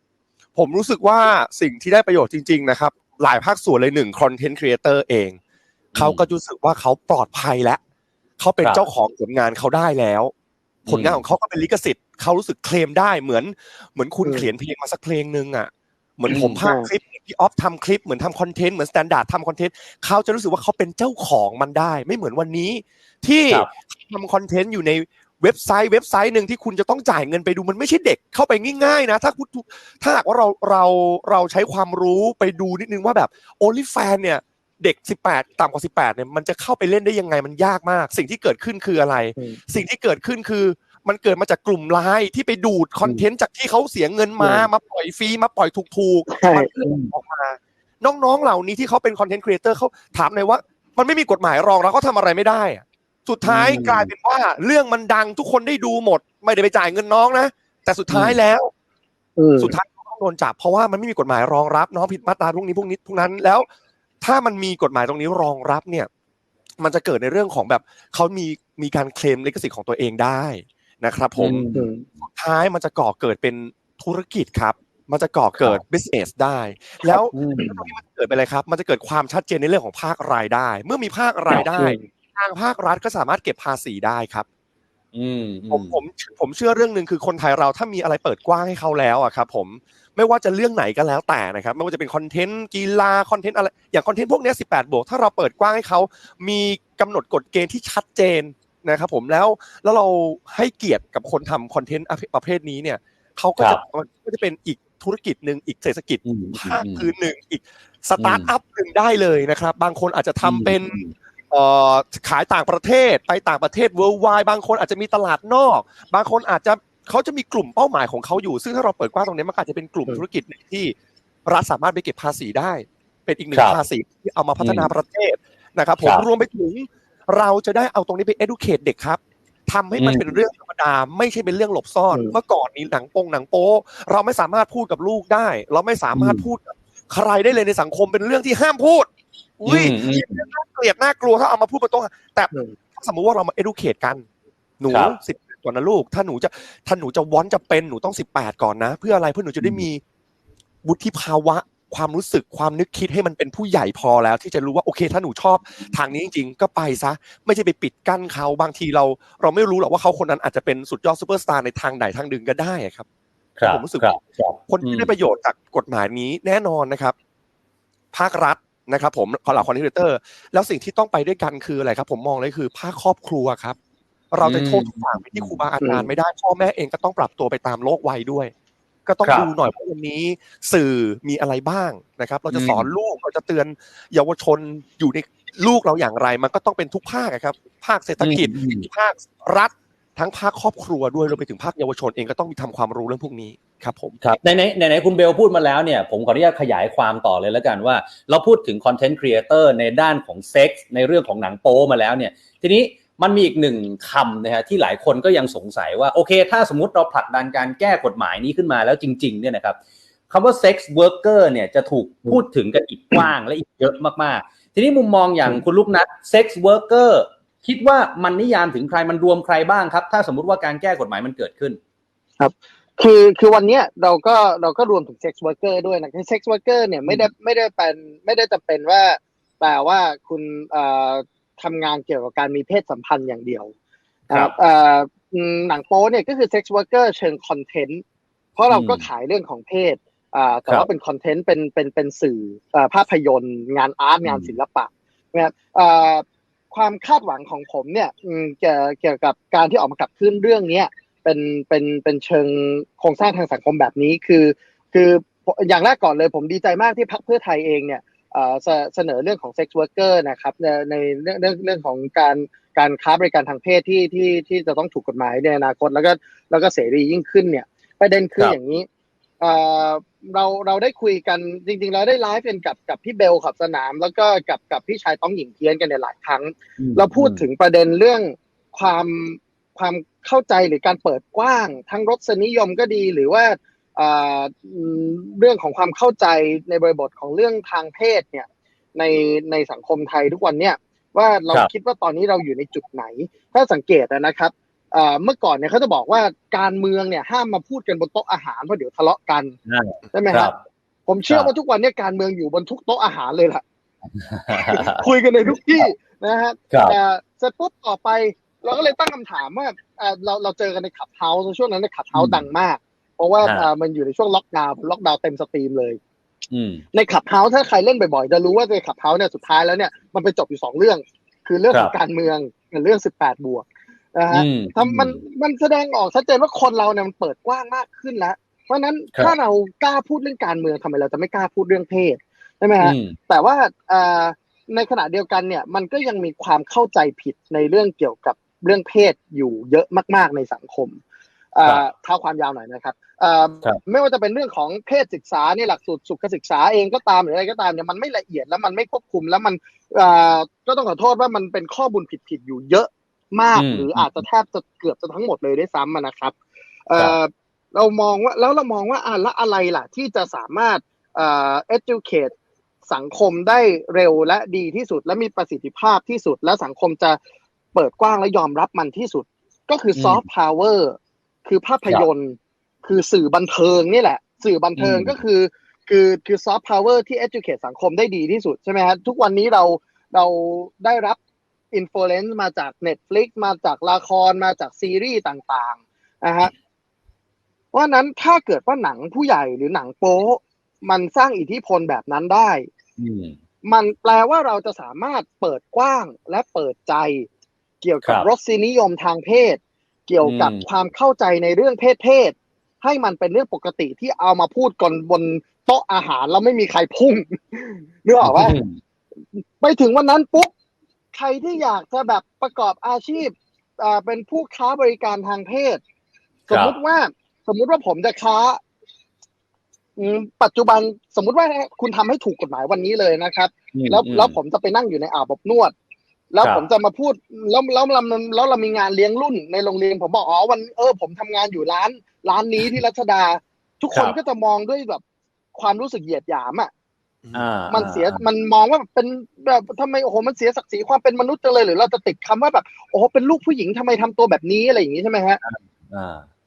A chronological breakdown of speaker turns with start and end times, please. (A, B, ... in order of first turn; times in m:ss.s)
0:00.6-0:05.4 A
0:05.9-0:06.3 B
0:06.0-0:07.8 A
0:08.4-0:10.3 A
0:10.8-0:11.2 B
0:10.8-0:58.7 A
0:16.3-0:16.6 B
0:16.6-0:16.9 C
0:44.4-0:44.7 C
0:46.3-0:46.7 C
0:53.4-0:54.1 B
0:58.1-0:58.4 B
0:59.4-0:59.7 C
0:59.6-1:03.6 A
1:04.2-1:06.1 A
1:06.8-1:11.7 A
1:11.4-1:11.9 B
1:11.7-1:12.1 C
1:12.2-1:24.4 A
1:15.6-1:15.8 B
1:17.3-1:17.8 B
1:21.6-1:22.0 C
1:25.1-1:26.0 B
1:25.7-1:51.0 A
1:46.2-1:47.1 B
1:48.2-1:48.5 B
1:50.4-1:51.1 B
1:51.5-2:00.9 A
2:01.4-2:24.2 A
2:03.5-2:03.8 B
2:04.6-2:04.9 B
2:10.0-2:10.3 B
2:16.1-2:16.5 B
2:19.6-2:20.4 B
2:24.8-2:30.0 A
2:24.9-2:25.2 B
2:30.8-2:43.0 A
2:43.6-2:45.1 B
2:43.6-2:44.1 A
2:44.7-2:47.1 A
2:48.1-2:53.8 A
2:54.3-2:58.5 A
2:54.4-2:55.6 B
2:55.8-2:56.1 C
2:59.0-3:14.2 A
2:59.2-2:59.5 B
3:02.5-3:02.9 B
3:08.2-3:08.9 B
3:14.2-3:29.8 B
3:30.3-3:41.8 B
3:42.4-3:53.7 C
3:54.3-3:54.5 B
3:54.3-3:58.0 C
3:58.6-4:28.9 C
3:58.7-3:59.0 B
4:04.2-4:04.5 B
4:29.4-4:59.5 C
4:36.8-4:37.4 B
4:59.7-5:00.6 B
5:00.1-5:00.5 C
5:01.1-5:03.6 C
5:04.2-5:05.0 B
5:04.5-5:16.0 C
5:06.7-5:07.0 B
5:12.1-5:12.4 B
5:13.4-5:13.7 B
5:16.5-5:16.8 B
5:16.9-5:41.0 C
5:24.3-5:25.2 B
5:32.8-5:33.2 B
5:41.5-5:56.3 C
5:53.5-5:54.2 B
5:56.9-6:02.3 C
6:02.8-6:07.2 C
6:07.7-6:21.2 C
6:09.9-6:10.2 B
6:14.8-6:15.2 B
6:21.7-6:26.5 C
6:27.7-6:32.7 C
6:33.0-6:33.4 B
6:33.6-6:37.3 C
6:37.8-6:48.6 C
6:40.2-6:40.6 B
6:48.2-6:48.8 B
6:49.3-6:50.5 C
6:51.1-6:55.8 C
6:56.5-6:56.7 B
6:56.5-6:58.6 C
7:00.0-7:05.7 C
7:03.7-7:04.3 B
7:06.3-7:15.0 C
7:06.4-7:06.7 B
7:15.5-7:16.7 C
7:17.3-7:18.2 B
7:17.7-7:25.4 C
7:25.4-7:26.2 B